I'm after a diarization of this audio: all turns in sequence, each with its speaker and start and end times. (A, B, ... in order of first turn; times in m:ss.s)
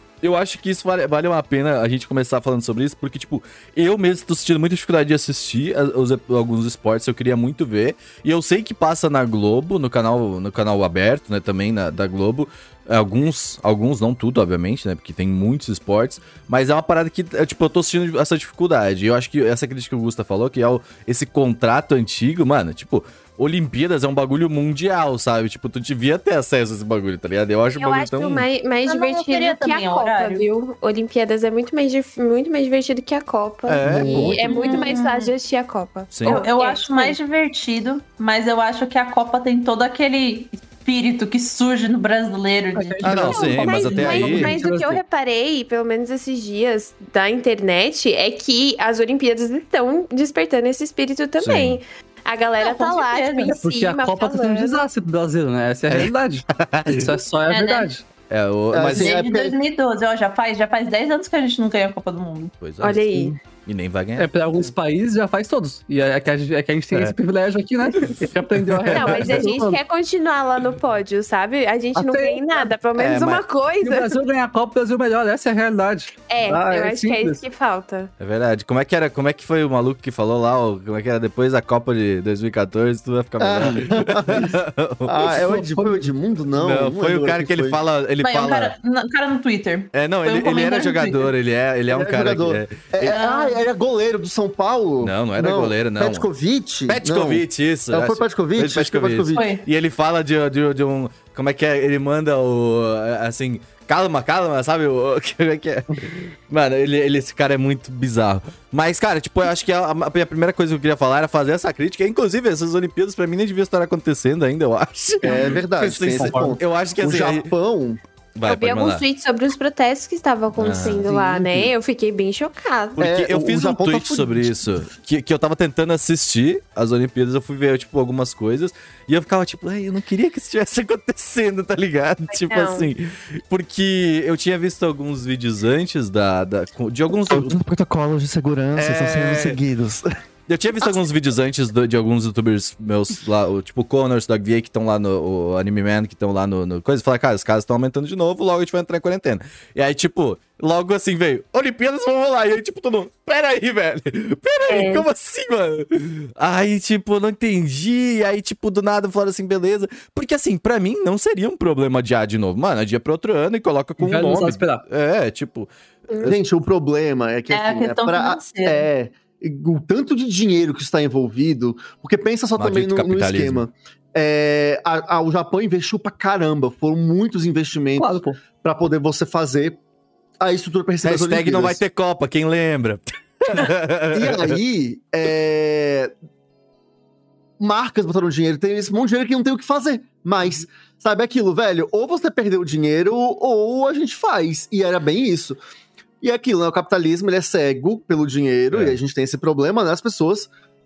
0:00.2-0:28.4 A
0:27.8-0:37.2 B
0:28.8-0:30.4 C
0:33.7-0:34.9 A
0:33.9-0:34.4 D
0:34.5-0:35.3 C
0:36.1-0:36.4 A
0:36.2-0:44.1 C
0:42.8-0:45.0 D
0:43.0-0:44.6 A
0:43.3-0:54.8 B
0:51.4-0:51.8 A
0:52.6-0:53.6 C
0:53.5-0:58.0 D
0:55.9-0:57.1 A
0:57.5-0:57.9 C
0:58.3-0:59.2 A
0:58.7-0:59.6 E
0:58.9-1:02.5 C
1:02.6-1:04.7 A
1:02.8-1:03.4 B
1:04.2-1:09.8 D
1:08.7-1:09.5 A
1:08.9-1:14.1 B
1:12.0-1:12.7 D
1:13.0-1:13.4 A
1:13.8-1:16.2 D
1:16.3-1:18.1 B
1:16.4-1:16.9 E
1:16.8-1:17.4 D
1:18.2-1:25.6 A
1:23.4-1:24.5 E
1:25.0-1:27.8 E
1:25.4-1:26.0 D
1:26.5-1:28.8 A
1:28.2-1:31.3 C
1:29.9-1:33.2 A
1:31.9-1:39.5 E
1:33.1-1:33.6 C
1:35.0-1:36.3 A
1:36.9-1:57.5 A
1:39.3-1:39.6 C
1:55.2-1:55.6 D
1:55.2-1:58.0 E
1:56.2-1:56.6 D
1:58.4-1:59.0 A
1:58.4-2:03.1 B
2:00.6-2:01.1 A
2:00.8-2:01.7 E
2:03.0-2:17.6 A
2:03.0-2:04.6 E
2:12.3-2:12.9 B
2:17.3-2:20.1 E
2:18.8-2:19.6 A
2:20.5-2:46.4 A
2:34.7-2:35.1 B
2:44.0-2:44.8 D
2:46.2-2:59.8 E
2:47.5-2:48.9 C
2:52.6-2:53.6 A
2:58.0-2:58.4 D
3:00.4-3:01.8 E
3:01.0-3:04.6 A
3:04.1-3:06.1 E
3:07.6-3:15.6 E
3:16.2-3:20.5 E
3:18.7-3:19.0 A